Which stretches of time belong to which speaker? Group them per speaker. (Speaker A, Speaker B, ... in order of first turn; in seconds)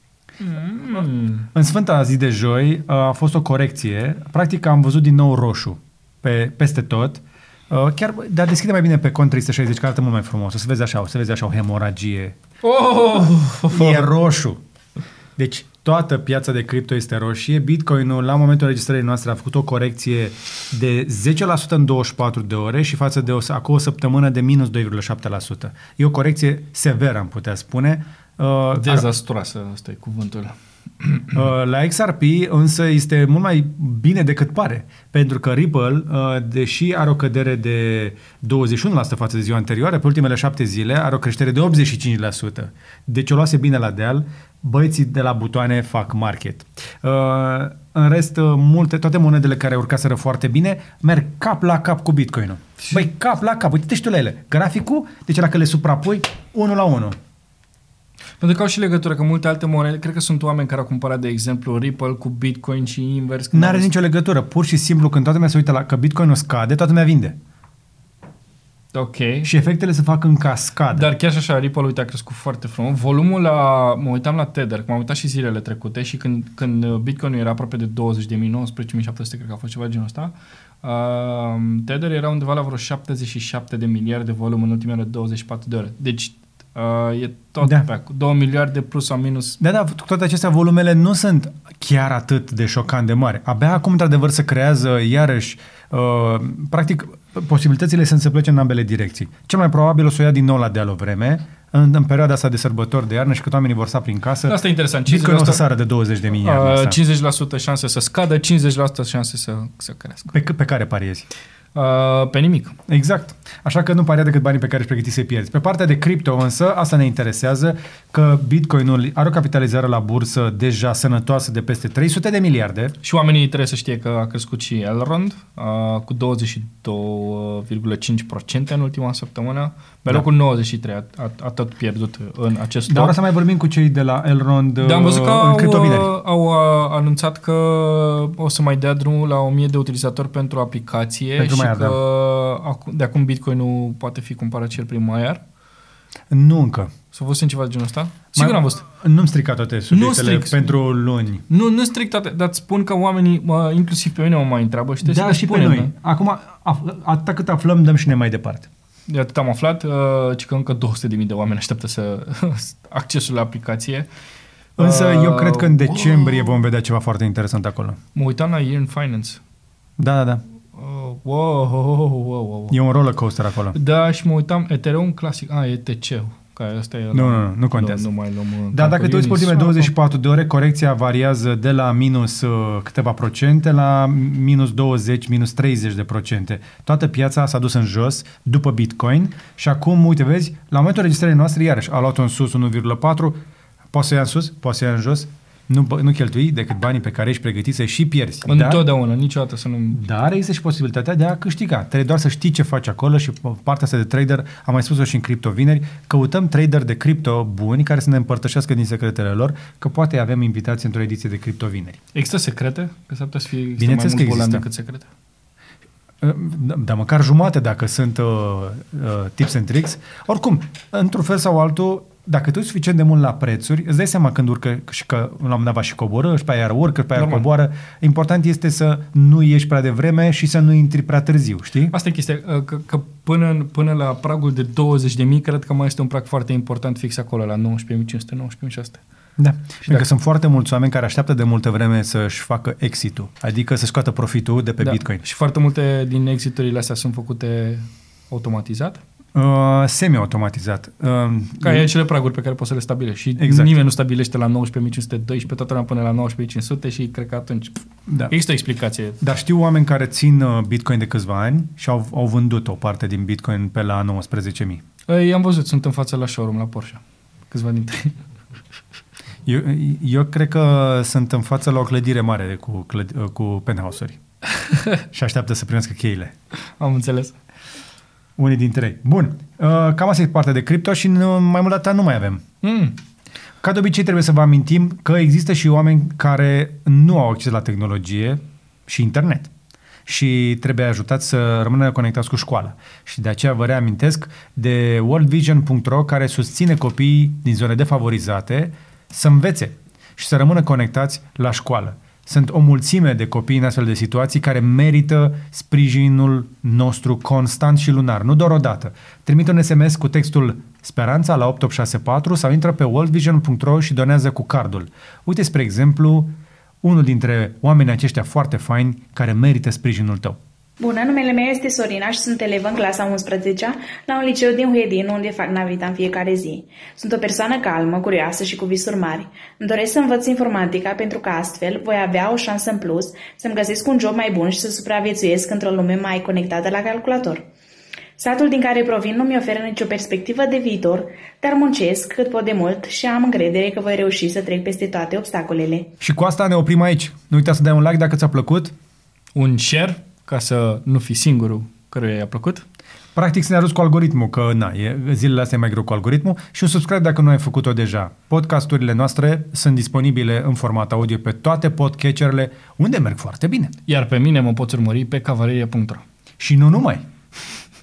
Speaker A: 0.4-1.5, 12.6-14.1, 28.8-31.5, 52.8-53.1, 58.4-63.9, 68.9-69.5, 70.9-89.6, 104.5-105.6, 106.4-110.3, 111.8-112.8, 123.0-133.2, 134.8-145.4, 147.1-148.8, 149.9-150.8, 151.5-155.9, 159.1-164.1, 164.8-166.6, 168.2-169.4, 170.7-172.8, 173.7-179.9, 198.4-200.0, 212.1-215.1, 227.2-227.4, 231.9-239.0, 244.8-249.0, 251.6-259.2, 265.1-268.2, 274.7-274.9, 276.5-277.4, 282.6-283.0, 349.4-352.6, 363.9-366.0
Speaker B: 1.5-12.4, 13.7-14.6, 15.4-29.1, 31.3-57.2, 63.5-67.4, 69.4-71.1, 89.6-107.0, 110.3-111.3, 112.9-123.0, 132.9-136.1, 141.4-142.0, 146.3-146.9, 148.3-151.4, 155.0-158.7, 164.8-168.0, 170.0-170.4, 172.7-173.8, 177.1-178.1, 178.7-193.4, 193.9-198.9, 199.9-212.0, 213.8-214.6, 216.2-231.9, 239.4-245.2, 249.3-251.9, 253.4-253.8, 258.1-258.3, 259.2-264.8, 269.5-274.2, 275.1-276.3, 278.4-282.4, 283.6-289.5, 290.1-320.4, 346.0-348.7, 353.1-363.7, 366.4-367.1
Speaker C: 320.8-337.5, 338.2-345.9